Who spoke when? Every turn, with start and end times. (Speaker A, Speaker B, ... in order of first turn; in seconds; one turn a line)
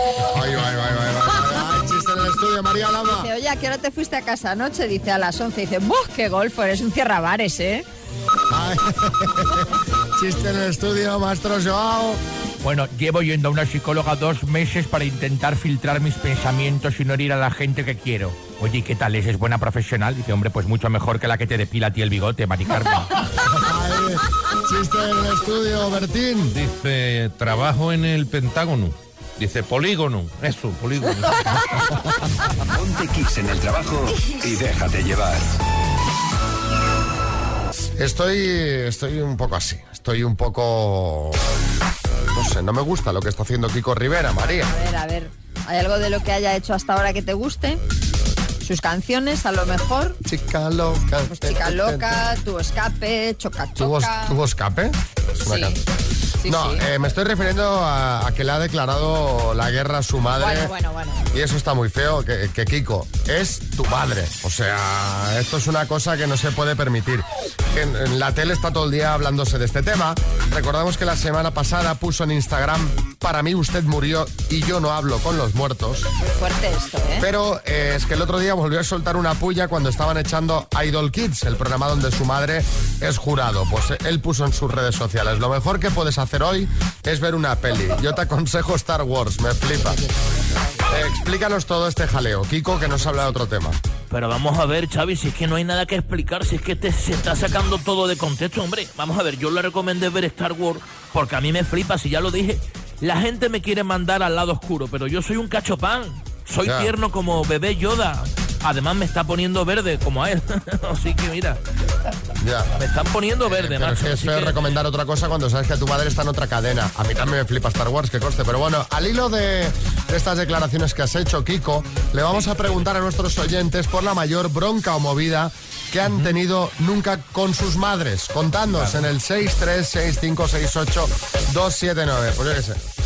Speaker A: 0.3-3.3
Speaker B: 3.1-7.8
Speaker A: 8.5-12.2
Speaker C: 12.6-23.1
Speaker A: 23.4-26.5
Speaker D: 26.5-31.6
Speaker E: 32.7-35.6
Speaker A: 38.0-41.4
Speaker A: 42.3-44.7
Speaker B: 44.4-47.8
Speaker B: 48.6-50.2
Speaker A: 50.2-52.1
Speaker B: 51.3-54.3
Speaker A: 53.8-55.8
Speaker B: 55.5-55.8
Speaker B: 56.4-56.8
Speaker A: 56.5-60.7
Speaker B: 60.4-61.2
Speaker A: 61.3-76.1
Speaker B: 76.2-77.2
Speaker A: 77.2-90.0
Speaker A: 90.9-93.8
Speaker F: 94.1-111.6
Speaker A: 106.6-106.9
Speaker A: 112.4-112.7
Speaker F: 112.8-114.6
Speaker A: 113.4-132.8